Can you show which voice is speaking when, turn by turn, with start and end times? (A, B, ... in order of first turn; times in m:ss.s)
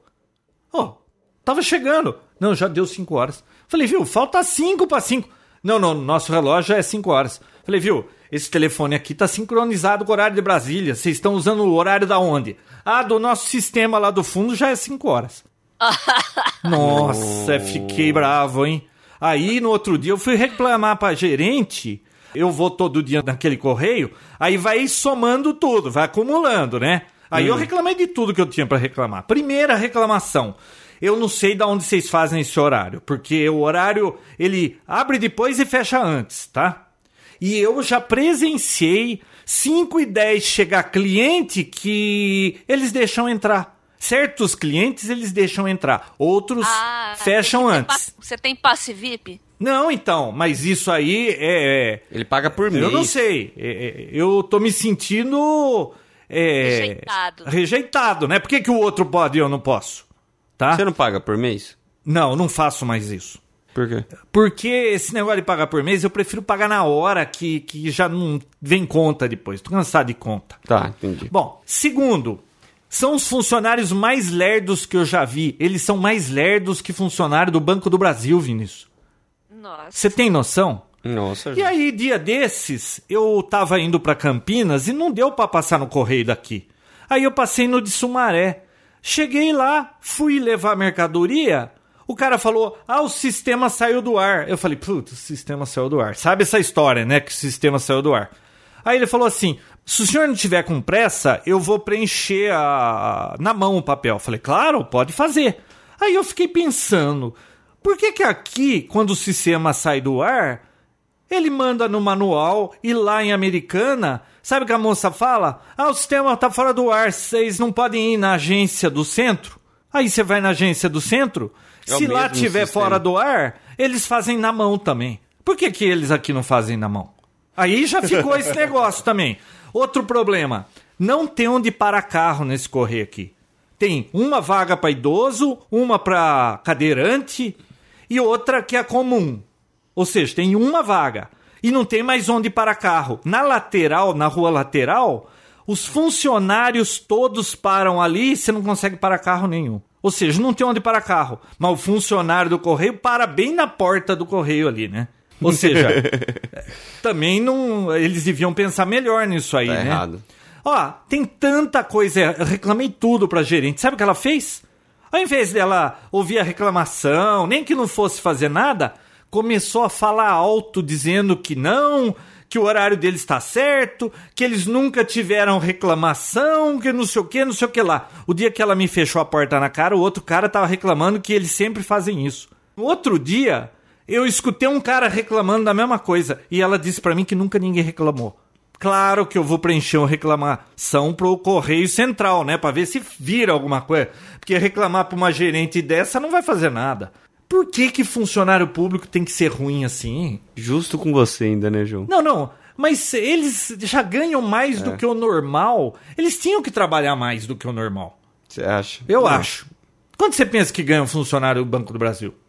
0:00.7-0:15.4 A
0:15.8-0:16.6 B
0:16.6-0:36.8 A
0:16.8-0:18.3 C
0:27.3-0:27.7 C
0:37.4-0:48.1 A
0:46.6-0:49.4 B
0:49.6-1:00.0 A
0:52.1-0:53.2 C
0:56.6-0:57.5 B
1:00.6-1:00.8 A
1:00.7-1:01.7 C
1:02.0-1:03.4 A
1:03.7-1:04.1 C
1:04.2-1:10.6 A
1:10.7-1:11.3 C
1:11.3-1:18.9 A
1:19.5-1:20.0 B
1:19.9-1:20.8 A
1:21.0-1:21.7 C
1:21.5-1:38.3 A
1:38.8-1:50.6 A
1:51.3-2:17.6 A
2:01.9-2:03.0 C
2:18.1-2:19.4 A
2:20.0-2:40.0 A
2:35.4-2:36.4 C
2:39.6-2:40.2 C
2:40.6-3:20.4 A
3:20.6-3:22.1 C
3:22.1-3:28.2 A
3:24.8-3:25.0 C
3:28.5-3:29.5 C
3:29.1-3:32.3 A